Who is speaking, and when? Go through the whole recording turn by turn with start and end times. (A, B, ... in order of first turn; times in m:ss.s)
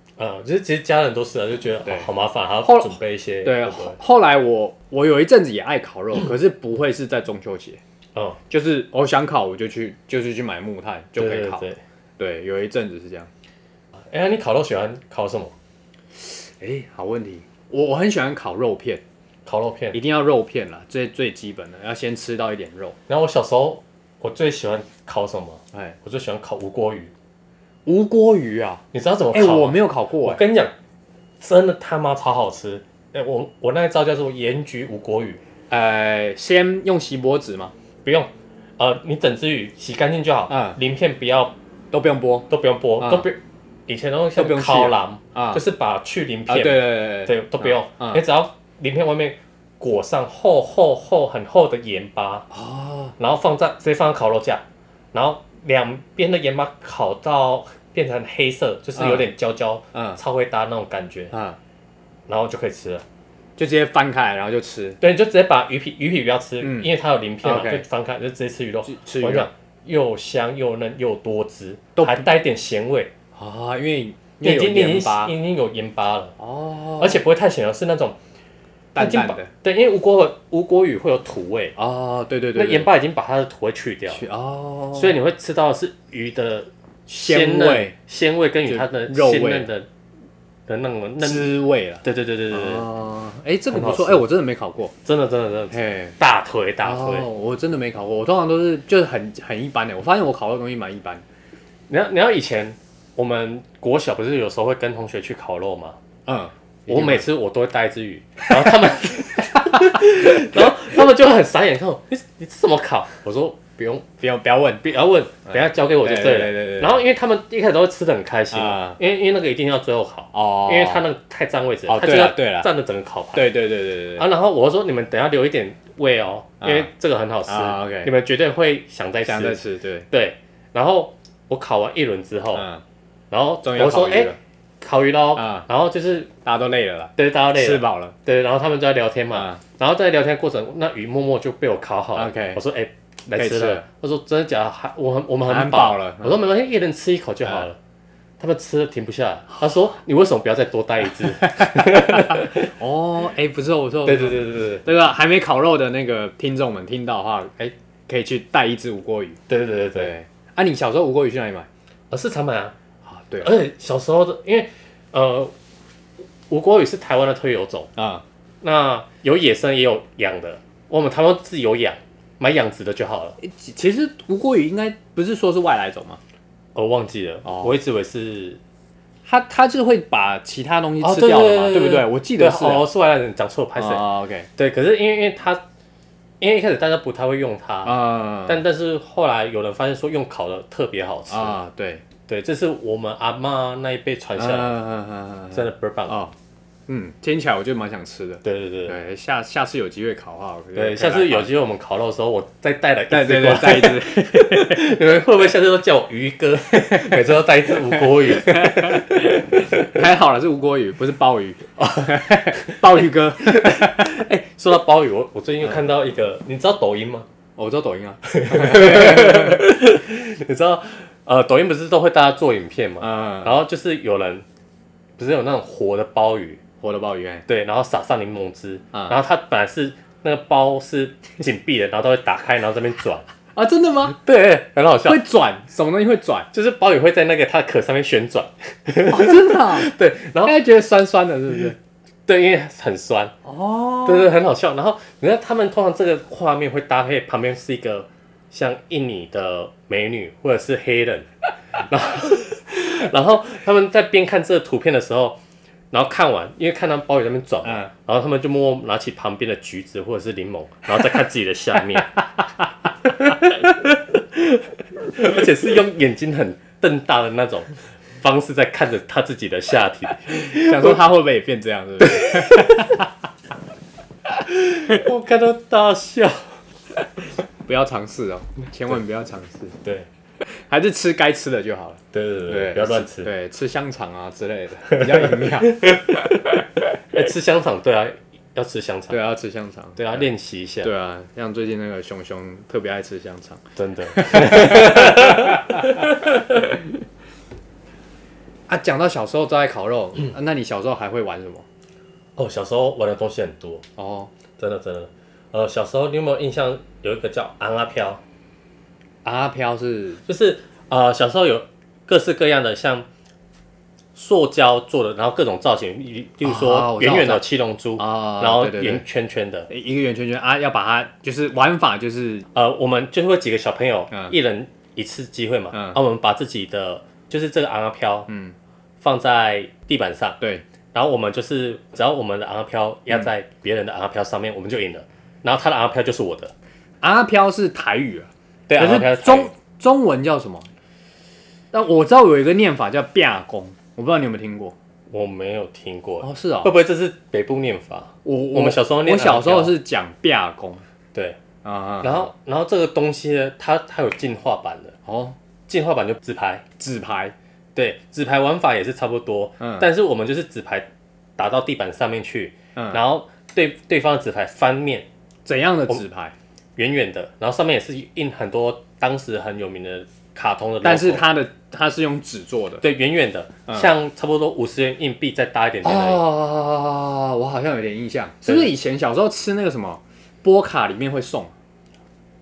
0:00.2-0:04.0 A
0:02.6-0:07.8 B
0:08.5-0:11.7 B
0:11.2-0:11.8 A
0:12.2-0:13.3 B
0:14.1-0:15.5 A
0:16.2-0:19.0 B
0:19.5-0:20.0 A
0:19.9-0:23.0 B
0:23.1-0:27.1 A
0:27.9-0:30.4 B
0:28.9-0:30.7 A
0:31.4-0:35.4 A
0:35.7-0:37.7 B
0:38.0-0:41.6 A
0:40.5-0:40.8 B
0:41.9-0:42.5 B
0:42.5-0:52.5 A
0:43.0-0:43.3 B
0:44.4-0:45.6 B
0:46.5-0:48.2 B
0:52.5-0:53.2 B
0:53.2-1:01.4 A
0:59.0-0:59.3 B
0:59.9-1:00.2 B
1:01.3-1:01.6 B
1:02.3-1:03.0 A
1:03.6-1:05.0 B
1:05.0-1:13.1 A
1:06.6-1:06.9 B
1:07.4-1:07.8 B
1:08.9-1:09.5 B
1:12.0-1:12.3 B
1:13.4-1:15.4 B
1:14.4-1:16.4 A
1:16.4-1:17.2 B
1:17.0-1:18.2 A
1:19.0-1:19.5 B
1:19.0-1:21.8 A
1:21.8-1:22.9 B
1:22.6-1:24.2 A
1:24.1-1:25.2 B
1:24.9-1:29.9 A
1:27.1-1:28.0 B
1:28.7-1:29.7 B
1:30.7-1:31.5 A
1:31.2-1:34.9 B
1:32.0-1:32.9 A
1:33.7-1:34.3 A
1:35.0-1:37.3 A
1:35.7-1:36.2 B
1:36.8-1:41.2 B
1:41.9-1:46.0 A
1:46.3-1:47.3 B
1:46.9-1:54.1 A
1:49.6-1:50.7 B
1:54.2-1:54.9 B
1:54.8-2:03.5 A
1:55.5-1:57.0 B
1:58.5-1:59.0 B
2:00.3-2:01.0 B
2:01.9-2:02.7 B
2:03.3-2:04.3 B
2:04.2-2:12.7 A
2:06.6-2:06.9 B
2:07.5-2:08.1 B
2:09.2-2:10.1 B
2:12.5-2:12.8 B
2:13.3-2:16.3 A
2:13.6-2:14.4 B
2:15.4-2:15.7 B
2:16.4-2:18.2 B
2:17.2-2:27.8 A
2:19.3-2:19.6 B
2:22.2-2:22.6 B
2:23.4-2:23.8 B
2:25.4-2:26.4 B
2:28.4-2:32.7 A
2:31.6-2:39.4 B
2:34.0-2:34.9 A
2:39.5-2:40.1 A
2:40.0-2:41.7 B
2:42.1-2:42.7 A
2:43.0-2:43.5 B
2:43.4-2:45.5 A
2:46.5-2:47.9 A
2:48.0-2:48.2 B
2:48.6-2:53.4 A
2:53.4-2:56.2 B
2:56.8-2:58.6 A
2:57.4-2:57.7 B
2:59.2-3:02.9 B
3:01.0-3:04.0 A
3:03.8-3:04.5 B
3:04.6-3:05.6 A
3:06.4-3:11.6 A
3:07.8-3:08.6 B
3:11.3-3:12.0 B
3:12.3-3:14.8 A
3:14.4-3:16.3 B
3:15.5-3:16.2 A
3:16.9-3:21.5 B
3:18.4-3:19.0 A
3:20.8-3:30.0 A
3:23.1-3:24.9 B
3:26.7-3:34.2 B
3:31.8-3:37.3 A
3:37.6-3:39.7 B
3:38.3-3:44.4 A
3:43.0-3:43.6 B
3:45.2-3:46.6 A
3:46.8-3:47.4 B
3:47.5-3:53.3 A
3:53.6-3:54.2 B
3:54.2-3:55.2 A
3:55.0-3:56.5 B
3:56.5-4:00.6 A
3:59.1-4:01.8 B
4:02.3-4:03.3 A
4:03.4-4:04.3 B
4:04.0-4:11.3 A
4:11.8-4:15.4 A
4:15.9-4:22.2 A
4:17.6-4:17.9 B
4:23.0-4:31.0 A
4:30.4-4:33.1 B
4:32.0-4:32.8 A
4:34.5-4:36.6 A
4:37.6-4:39.8 B
4:40.4-4:46.0 B
4:42.1-4:43.3 A
4:44.9-4:49.2 A
4:49.1-4:50.3 B
4:50.0-4:50.9 A
4:50.8-4:56.1 B
4:53.8-4:56.8 A
4:58.7-5:01.6 B
5:02.4-5:03.8 A
5:04.0-5:04.3 B
5:04.6-5:08.2 A
5:09.2-5:10.2 B
5:10.3-5:13.1 A
5:14.2-5:19.7 A
5:16.4-5:17.4 B
5:18.0-5:19.0 B
5:19.7-5:22.5 B
5:22.6-5:28.3 A
5:25.7-5:26.0 B
5:28.3-5:28.6 B
5:29.0-5:30.4 A
5:30.9-5:36.5 A
5:37.0-5:40.7 B
5:38.7-5:39.5 A
5:41.7-5:44.8 B
5:45.1-5:49.8 A
5:46.2-5:46.7 B
5:48.2-5:50.8 B
5:51.1-5:51.4 A
5:51.6-5:52.3 B
5:52.0-5:55.0 A
5:55.1-5:55.4 B
5:55.7-5:56.6 A
5:56.8-5:57.3 B
5:57.8-6:05.1 A
5:59.6-5:59.9 B
6:02.8-6:03.0 B
6:05.4-6:06.3 B
6:06.8-6:11.2 A
6:10.8-6:12.8 B
6:12.8-6:16.2 A
6:13.7-6:13.9 B
6:15.8-6:21.5 B
6:18.4-6:18.7 A